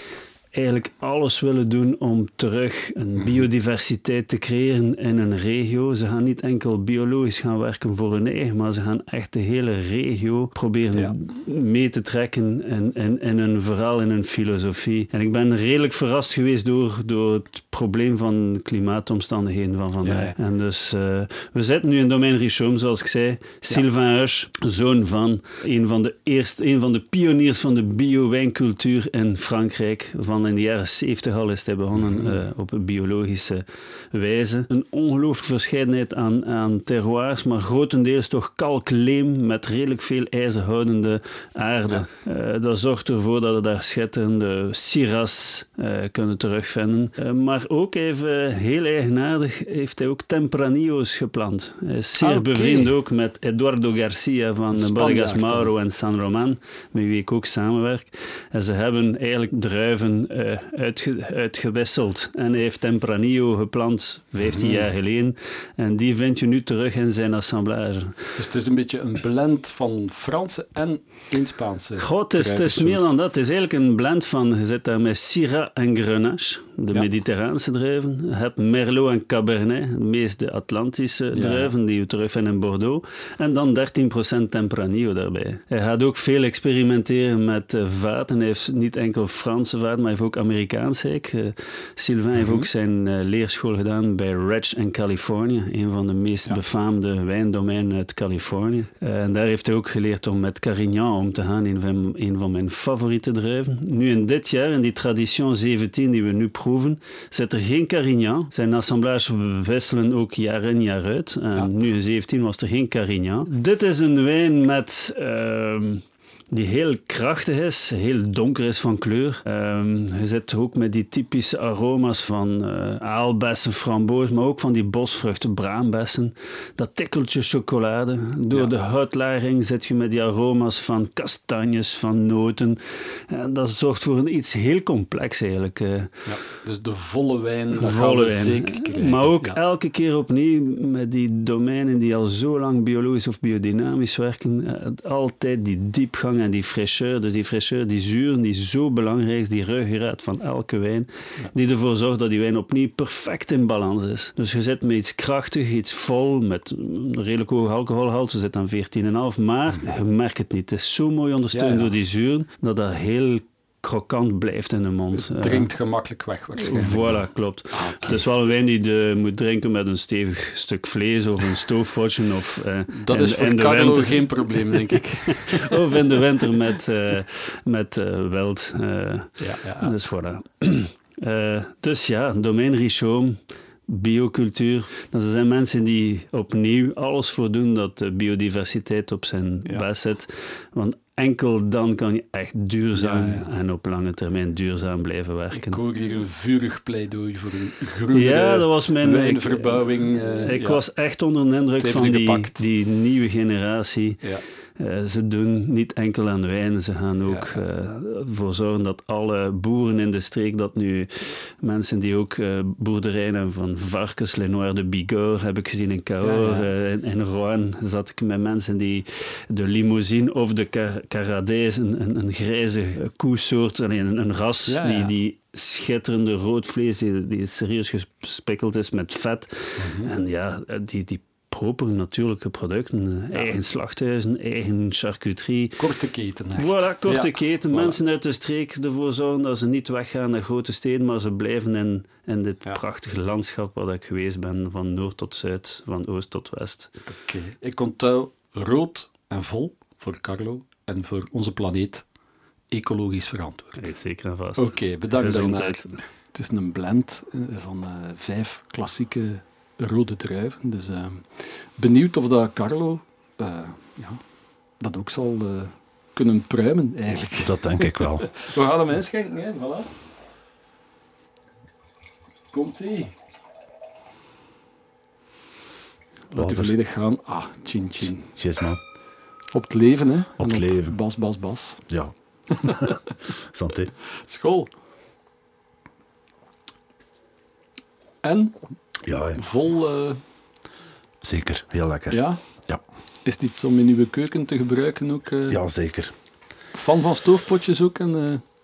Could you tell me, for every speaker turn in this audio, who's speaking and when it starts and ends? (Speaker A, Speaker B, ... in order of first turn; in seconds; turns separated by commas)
Speaker A: 0.5-68.3, Speaker B: 3.2-3.4, Speaker B: 20.0-20.4, Speaker B: 32.0-32.4, Speaker B: 52.2-52.9, Speaker B: 54.7-55.7, Speaker B: 64.4-64.9, Speaker B: 68.3-73.1, Speaker A: 72.0-136.2, Speaker B: 81.3-81.7, Speaker B: 92.4-92.7, Speaker B: 136.2-139.6, Speaker A: 137.8-165.7, Speaker B: 161.5-161.9, Speaker B: 165.1-168.2, Speaker A: 166.6-195.8, Speaker B: 172.9-176.1, Speaker B: 179.4-179.9, Speaker B: 192.9-193.5, Speaker B: 195.5-200.8, Speaker A: 198.1-204.2, Speaker B: 201.8-202.6, Speaker A: 204.8-235.8, Speaker B: 207.2-207.6, Speaker B: 216.2-216.7, Speaker B: 224.7-225.1, Speaker B: 229.8-230.1, Speaker B: 235.8-238.0, Speaker A: 236.6-246.9, Speaker B: 247.1-252.0, Speaker B: 252.7-253.9, Speaker A: 253.8-256.0, Speaker B: 254.6-264.2, Speaker B: 264.8-269.9, Speaker C: 267.4-268.3, Speaker B: 272.5-273.1, Speaker B: 276.3-278.3, Speaker C: 276.4-276.8, Speaker C: 278.4-278.8, Speaker B: 279.5-281.8, Speaker C: 280.4-280.9, Speaker C: 281.9-283.9, Speaker B: 282.5-283.1, Speaker B: 284.1-284.7, Speaker B: 288.2-288.6, Speaker C: 289.0-289.4, Speaker B: 289.4-290.2, Speaker C: 291.2-292.8, Speaker B: 292.1-292.4, Speaker B: 293.2-295.6, Speaker C: 295.5-296.1, Speaker B: 296.7-298.4